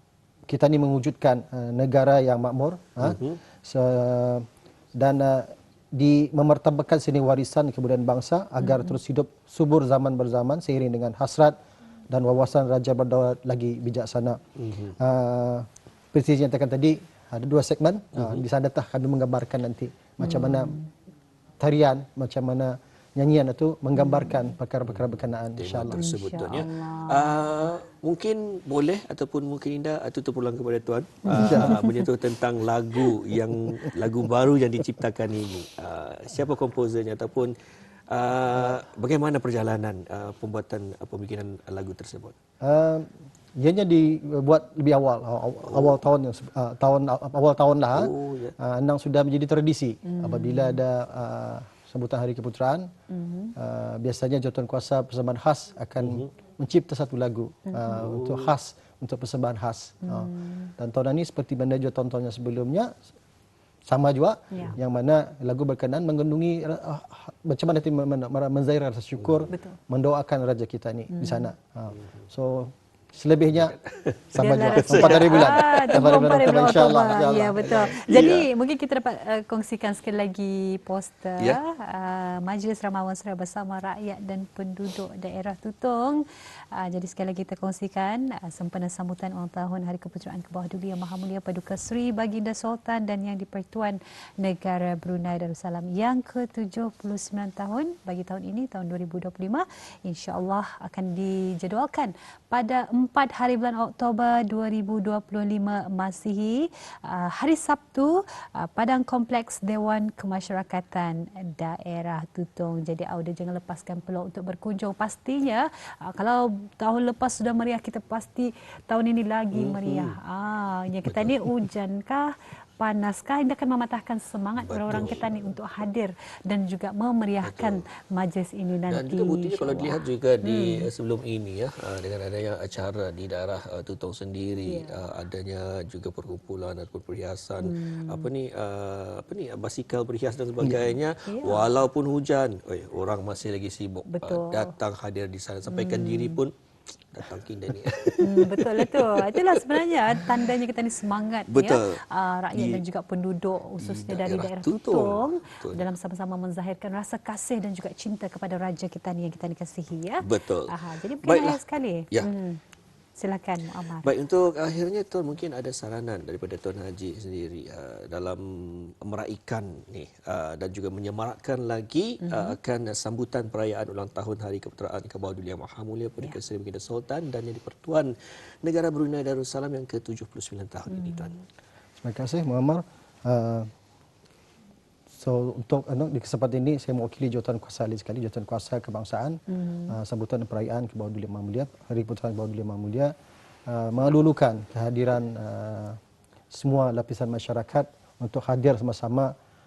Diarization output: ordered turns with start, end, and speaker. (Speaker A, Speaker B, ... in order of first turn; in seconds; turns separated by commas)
Speaker A: 0.5-11.6, Speaker B: 3.0-3.4, Speaker C: 8.6-9.0, Speaker A: 12.1-14.4, Speaker B: 14.7-14.9, Speaker A: 15.0-20.8, Speaker B: 18.2-18.4, Speaker C: 20.2-20.9, Speaker A: 21.6-26.1, Speaker C: 24.0-24.4, Speaker B: 24.9-37.5, Speaker C: 25.9-27.4, Speaker C: 31.2-32.0, Speaker A: 31.3-31.8, Speaker B: 38.1-42.4, Speaker A: 42.6-52.9, Speaker B: 45.7-46.0, Speaker B: 47.9-48.5, Speaker C: 50.0-50.8, Speaker C: 53.1-53.5, Speaker A: 53.6-62.9, Speaker C: 57.7-58.1, Speaker B: 58.0-58.5, Speaker C: 60.0-60.7, Speaker A: 63.9-73.8, Speaker B: 69.2-69.5, Speaker C: 69.5-69.8, Speaker C: 71.1-71.5, Speaker B: 73.7-76.7, Speaker A: 74.3-77.9, Speaker C: 74.4-86.2, Speaker B: 77.7-78.5, Speaker C: 86.7-130.9, Speaker B: 119.5-120.2, Speaker B: 121.0-121.5, Speaker B: 124.6-125.5, Speaker B: 127.4-127.8, Speaker B: 128.9-146.5, Speaker C: 134.6-135.0, Speaker C: 137.6-138.3, Speaker C: 141.3-141.7, Speaker C: 144.1-144.7, Speaker C: 145.7-146.4, Speaker B: 147.1-150.4, Speaker C: 148.2-162.6, Speaker B: 151.5-152.0, Speaker B: 152.5-152.8, Speaker B: 153.8-155.9, Speaker B: 160.2-161.6, Speaker C: 163.2-164.1, Speaker B: 164.0-181.3, Speaker C: 172.2-172.6, Speaker C: 180.9-181.3, Speaker A: 182.0-183.7, Speaker A: 185.1-193.1, Speaker C: 189.5-189.9, Speaker A: 193.7-196.0, Speaker A: 196.5-199.3